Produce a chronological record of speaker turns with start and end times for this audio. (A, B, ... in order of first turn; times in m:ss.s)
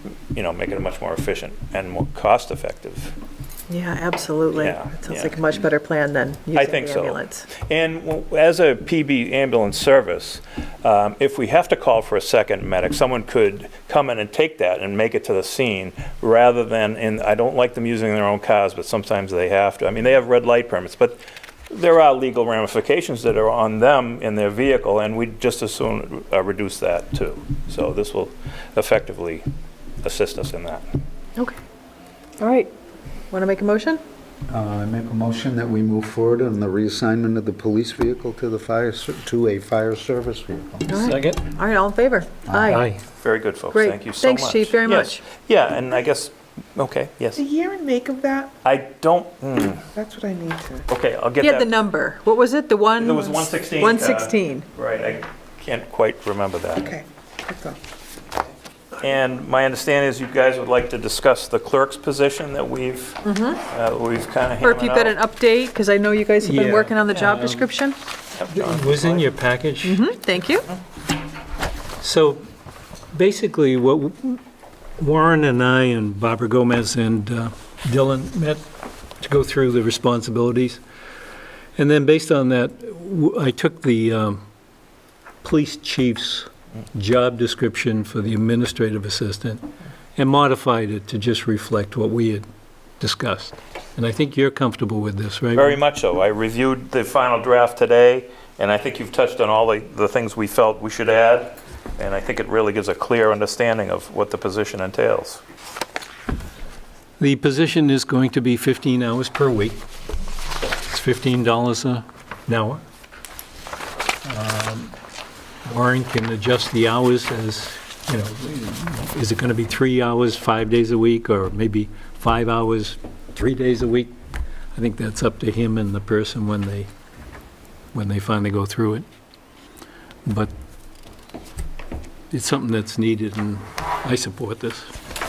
0:00.3-0:03.2 A
0:03.7-0:07.5 B
0:04.6-0:05.4 A
0:06.6-0:29.5 A
0:30.0-0:30.8 A
0:32.4-0:32.7 B
0:33.3-0:34.0 B
0:34.5-0:41.2 C
0:40.9-0:42.9 B
0:41.0-0:41.4 D
0:42.5-0:42.8 C
0:42.7-0:43.0 D
0:43.2-0:47.4 A
0:43.7-0:45.2 B
0:47.4-0:48.5 E
0:48.6-0:49.8 A
0:50.0-0:50.9 E
0:50.9-0:51.7 A
0:51.4-0:54.6 B
0:53.0-0:56.9 A
0:56.8-0:57.8 E
0:59.0-1:05.2 A
1:03.2-1:03.6 B
1:04.6-1:08.0 B
1:06.4-1:07.7 D
1:08.4-1:09.3 A
1:08.5-1:10.0 D
1:09.8-1:10.7 B
1:12.0-1:12.4 D
1:13.1-1:14.4 D
1:15.0-1:18.6 D
1:19.2-1:20.8 D
1:21.8-1:24.4 D
1:25.4-1:29.6 D
1:30.2-1:32.4 D
1:33.0-1:35.8 D
1:35.6-1:45.4 A
1:47.2-1:49.8 D
1:50.9-1:52.8 D
1:54.2-1:54.9 D
1:55.6-2:04.1 D
2:04.8-2:06.9 D
2:07.9-2:09.1 D
2:10.3-2:10.5 D
2:12.3-2:14.9 D